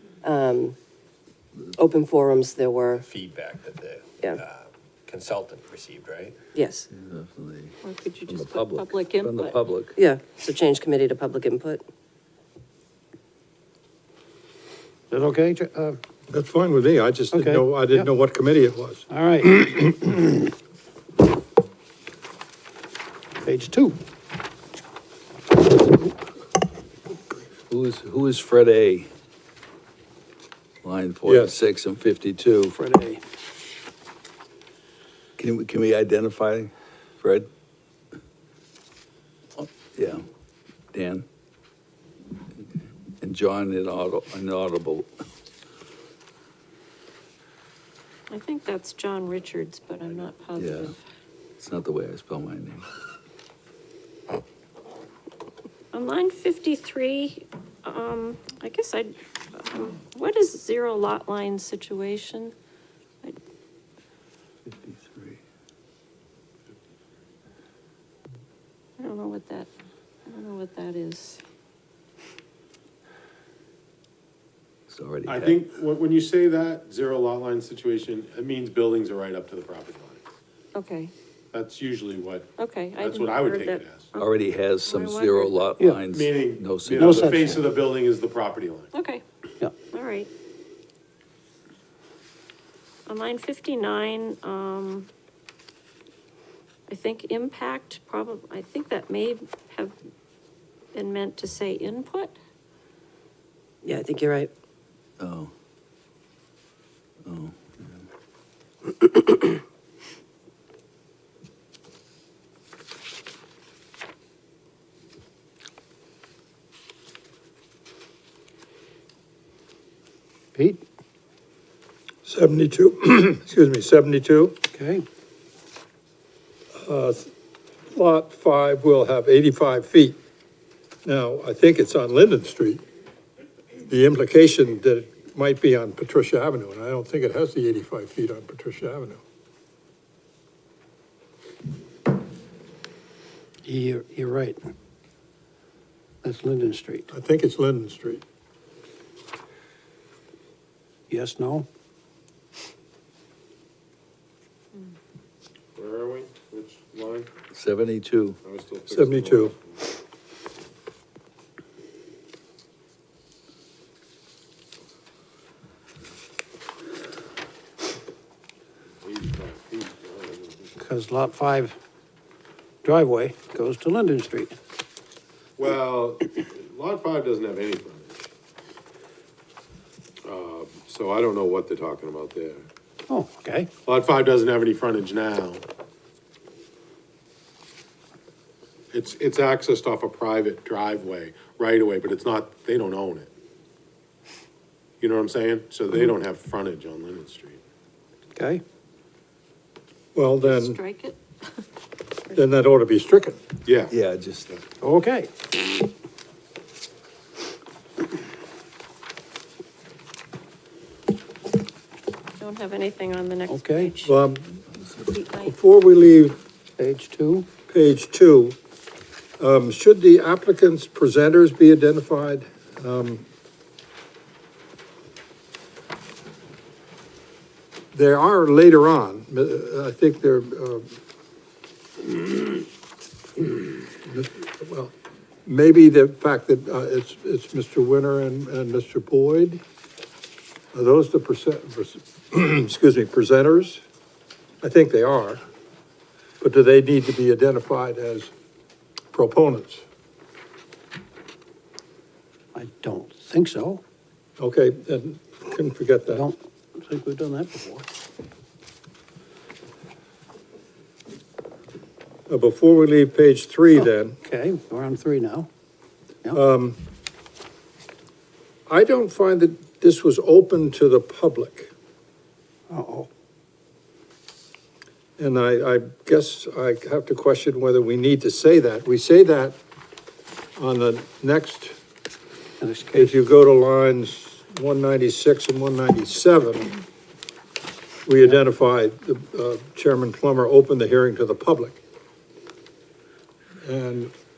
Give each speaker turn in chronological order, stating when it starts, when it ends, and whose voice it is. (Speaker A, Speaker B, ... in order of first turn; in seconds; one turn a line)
Speaker A: 0.2-0.8
Speaker A: 1.7-3.0
Speaker B: 3.0-6.4
Speaker A: 6.5-6.9
Speaker C: 6.9-7.8
Speaker D: 7.8-9.6
Speaker C: 8.3-9.9
Speaker A: 9.9-11.8
Speaker E: 15.1-16.0
Speaker F: 16.3-19.1
Speaker E: 17.3-18.1
Speaker E: 19.1-20.3
Speaker E: 23.4-23.9
Speaker C: 27.7-29.1
Speaker C: 30.8-32.8
Speaker F: 31.2-31.6
Speaker E: 32.7-33.2
Speaker C: 35.4-37.5
Speaker C: 39.6-40.2
Speaker C: 40.9-41.2
Speaker C: 43.2-45.1
Speaker D: 48.3-51.0
Speaker C: 50.6-50.9
Speaker C: 51.6-52.8
Speaker D: 55.9-62.5
Speaker C: 64.7-65.4
Speaker D: 69.0-69.7
Speaker D: 70.2-71.4
Speaker C: 74.9-75.6
Speaker G: 75.2-80.2
Speaker D: 80.7-81.1
Speaker G: 81.5-84.1
Speaker D: 82.6-84.3
Speaker C: 84.2-87.7
Speaker D: 84.8-85.8
Speaker E: 85.8-86.0
Speaker G: 86.1-88.9
Speaker E: 87.0-87.6
Speaker D: 88.9-89.2
Speaker D: 89.9-90.3
Speaker D: 93.1-95.1
Speaker D: 96.9-99.9
Speaker D: 100.9-102.3
Speaker A: 103.8-104.5
Speaker C: 105.2-105.5
Speaker C: 107.2-108.0
Speaker E: 120.5-120.8
Speaker F: 122.2-124.6
Speaker E: 124.7-125.0
Speaker F: 126.8-127.3
Speaker F: 127.9-130.2
Speaker F: 131.0-132.8
Speaker F: 133.8-139.2
Speaker E: 143.6-144.6
Speaker E: 146.2-147.1
Speaker F: 147.1-148.2
Speaker E: 151.1-151.7
Speaker G: 155.8-157.3
Speaker C: 157.5-158.4
Speaker G: 158.4-159.8
Speaker F: 158.9-159.5
Speaker G: 169.0-170.7
Speaker E: 170.8-171.8
Speaker E: 172.8-174.5
Speaker G: 175.6-178.3
Speaker G: 180.2-182.7
Speaker E: 183.1-183.7
Speaker G: 183.8-185.6
Speaker G: 188.9-193.3
Speaker G: 195.0-197.6
Speaker E: 198.3-198.6
Speaker F: 200.1-200.8
Speaker D: 200.4-201.2
Speaker F: 202.3-203.4
Speaker G: 203.6-203.9
Speaker C: 203.9-204.5
Speaker E: 204.8-205.3
Speaker D: 212.4-214.2
Speaker E: 213.5-213.9
Speaker F: 214.1-214.6
Speaker D: 215.0-215.6
Speaker F: 215.4-216.4
Speaker E: 216.8-217.4
Speaker F: 217.7-218.6
Speaker F: 219.4-223.2
Speaker F: 227.9-230.8
Speaker F: 233.9-234.9
Speaker F: 235.4-239.6
Speaker F: 240.7-243.8
Speaker F: 244.6-245.4
Speaker F: 246.4-248.3
Speaker F: 249.1-249.8
Speaker E: 252.5-253.8
Speaker F: 254.4-256.2
Speaker E: 256.1-257.9
Speaker F: 262.3-264.2
Speaker E: 264.2-265.5
Speaker F: 266.3-266.8
Speaker F: 268.7-271.7
Speaker E: 272.7-273.1
Speaker F: 275.2-279.6
Speaker F: 280.6-281.8
Speaker E: 282.6-283.2
Speaker F: 282.9-286.8
Speaker F: 288.1-291.8
Speaker F: 293.6-294.1